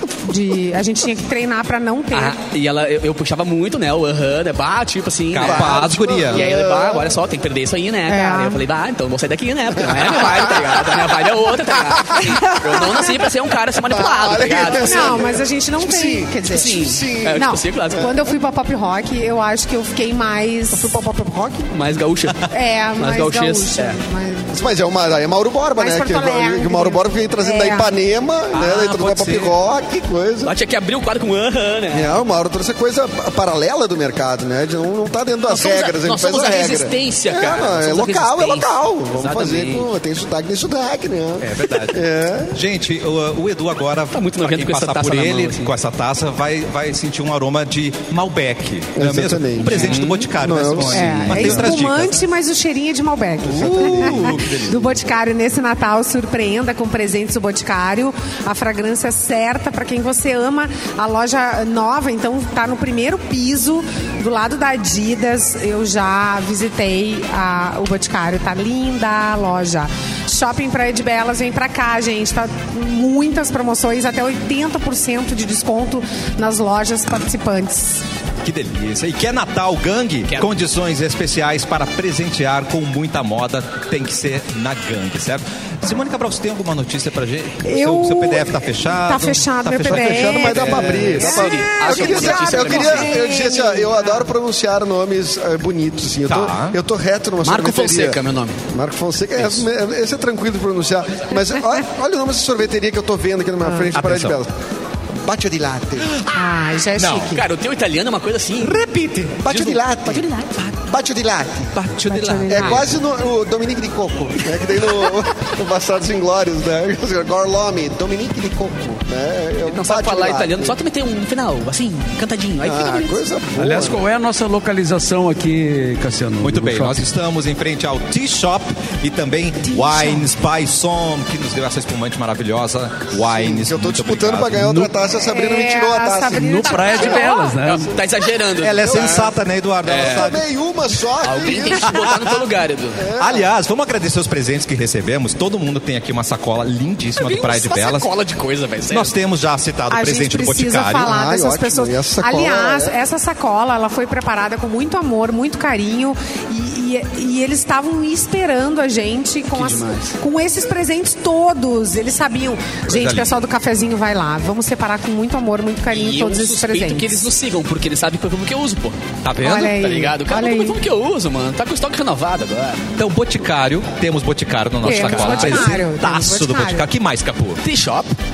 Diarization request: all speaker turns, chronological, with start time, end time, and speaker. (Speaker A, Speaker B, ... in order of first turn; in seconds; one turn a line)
Speaker A: 0.2-2.4
Speaker B: 2.1-15.2
Speaker C: 5.3-6.5
Speaker D: 5.4-7.2
Speaker A: 8.1-8.6
Speaker D: 9.8-11.2
Speaker D: 11.9-13.0
Speaker D: 13.9-18.2
Speaker A: 14.8-21.0
Speaker B: 16.5-18.1
Speaker D: 20.7-21.7
Speaker B: 21.7-22.4
Speaker A: 22.5-24.5
Speaker B: 23.0-24.0
Speaker D: 24.5-30.5
Speaker A: 25.8-27.9
Speaker C: 28.5-29.5
Speaker B: 30.4-32.2
Speaker D: 31.9-42.6
Speaker B: 35.5-39.9
Speaker C: 41.4-52.2
Speaker B: 44.1-45.7
Speaker D: 49.0-51.8
Speaker B: 49.7-50.3
Speaker A: 50.9-78.0
Speaker D: 53.4-54.6
Speaker C: 53.5-54.9
Speaker C: 78.4-91.3
Speaker A: 87.7-94.3
Speaker D: 89.8-104.5
Speaker B: 91.0-93.2
Speaker C: 96.3-96.8
Speaker B: 97.4-98.6
Speaker B: 99.4-99.7
Speaker A: 103.6-103.9
Speaker C: 103.9-104.4
Speaker D: 105.2-106.1
Speaker C: 106.1-106.5
Speaker A: 106.3-107.4
Speaker C: 107.0-107.4
Speaker B: 107.3-108.9
Speaker C: 108.6-109.4
Speaker D: 109.3-111.8
Speaker B: 109.5-110.7
Speaker B: 111.8-112.9
Speaker A: 112.1-112.9
Speaker D: 112.5-120.8
Speaker B: 119.7-123.2
Speaker D: 122.6-124.0
Speaker E: 123.6-127.0
Speaker C: 126.4-134.7
Speaker A: 129.7-130.3
Speaker D: 133.1-137.1
Speaker E: 134.6-134.9
Speaker A: 135.3-137.5
Speaker E: 136.3-137.9
Speaker B: 137.0-139.2
Speaker C: 138.6-140.4
Speaker D: 138.8-142.0
Speaker B: 139.8-140.4
Speaker B: 141.2-143.1
Speaker C: 141.8-142.4
Speaker D: 143.0-143.5
Speaker C: 143.2-148.1
Speaker B: 147.2-149.2
Speaker C: 148.9-151.1
Speaker A: 149.9-167.3
Speaker D: 151.0-153.0
Speaker B: 159.5-160.1
Speaker C: 162.9-163.3
Speaker B: 165.9-169.0
Speaker C: 169.2-169.8
Speaker A: 169.4-170.8
Speaker B: 169.6-172.9
Speaker C: 173.0-177.6
Speaker B: 174.8-175.8
Speaker A: 174.8-176.9
Speaker B: 177.6-178.2